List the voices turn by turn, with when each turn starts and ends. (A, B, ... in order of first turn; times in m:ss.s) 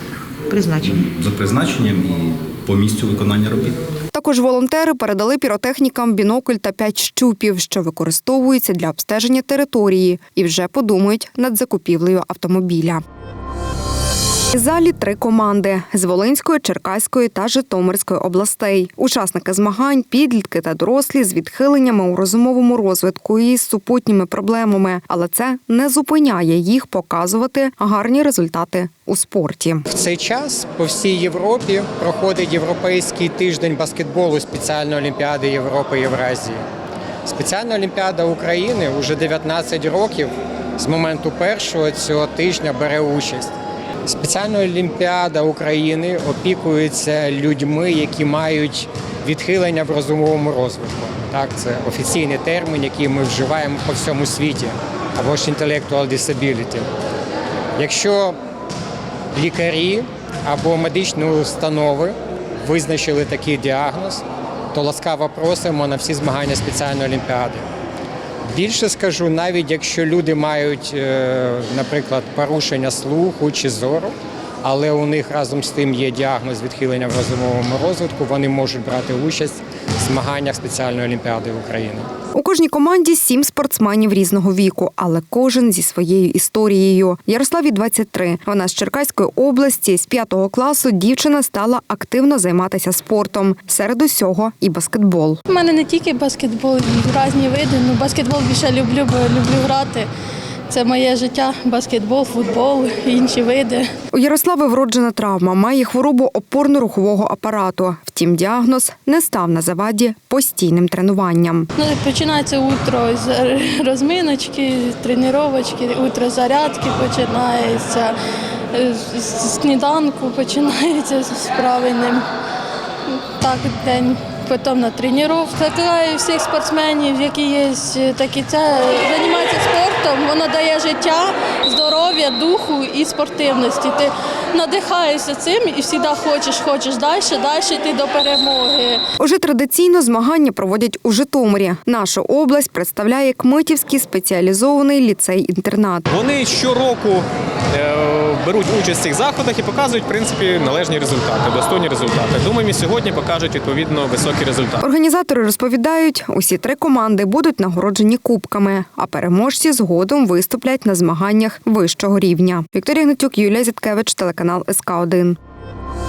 0:00.8-0:03.8 A
0:04.1-0:13.0 B
0:14.6-0:29.8 B
0:29.9-0:36.6 C
0:37.2-0:43.5 C
0:44.1-0:56.9 C
0:57.8-0:58.4 C
0:59.4-1:07.7 C
1:08.5-1:22.1 C
1:22.3-1:35.4 B
1:35.4-1:40.1 D
1:40.7-1:43.9 D
1:44.2-1:51.6 B
1:51.8-1:58.2 D
1:58.7-2:02.3 D
2:03.1-2:19.0 D
2:19.2-2:26.0 B
2:26.1-2:34.8 E
2:34.8-2:45.3 B